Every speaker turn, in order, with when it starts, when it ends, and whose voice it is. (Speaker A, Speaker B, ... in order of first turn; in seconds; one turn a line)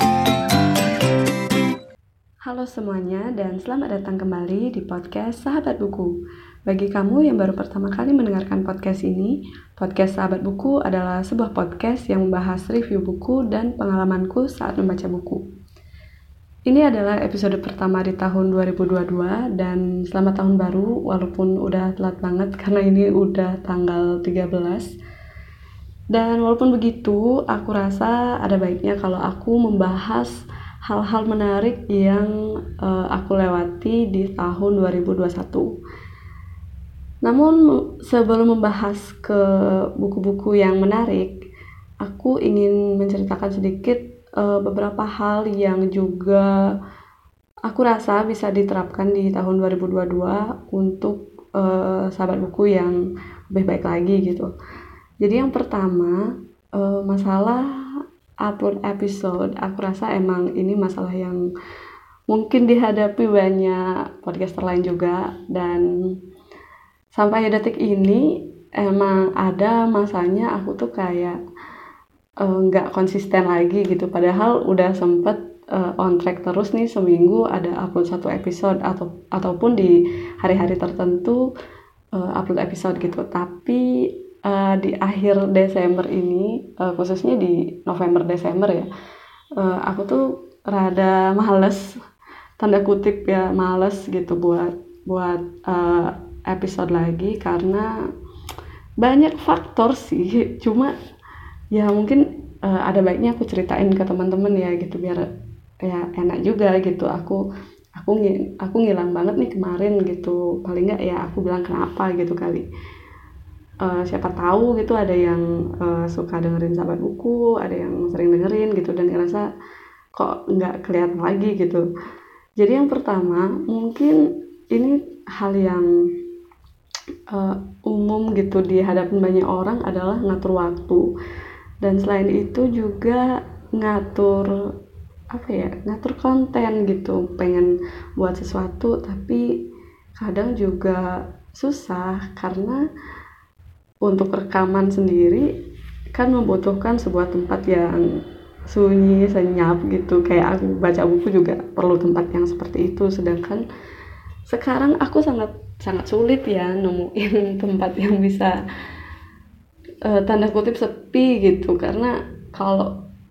Speaker A: 2.5-15.4
Speaker A: 16.7-24.9
Speaker A: 26.1-35.7
Speaker A: 37.2-39.4
Speaker A: 40.0-41.3
Speaker A: 42.0-46.5
Speaker A: 47.7-53.0
Speaker A: 53.5-54.5
Speaker A: 55.2-56.2
Speaker A: 56.8-57.7
Speaker A: 58.5-61.4
Speaker A: 62.3-65.9
Speaker A: 67.2-71.4
Speaker A: 72.4-81.4
Speaker A: 82.1-83.8
Speaker A: 84.5-88.9
Speaker A: 89.6-91.9
Speaker A: 92.6-97.9
Speaker A: 99.0-100.9
Speaker A: 101.7-105.3
Speaker A: 105.8-107.4
Speaker A: 108.0-112.7
Speaker A: 113.8-119.5
Speaker A: 120.2-121.8
Speaker A: 122.6-124.2
Speaker A: 124.7-125.9
Speaker A: 127.3-131.1
Speaker A: 131.8-134.6
Speaker A: 135.3-139.4
Speaker A: 140.2-142.8
Speaker A: 144.1-145.5
Speaker A: 146.1-148.1
Speaker A: 148.7-153.6
Speaker A: 154.5-158.6
Speaker A: 160.1-162.9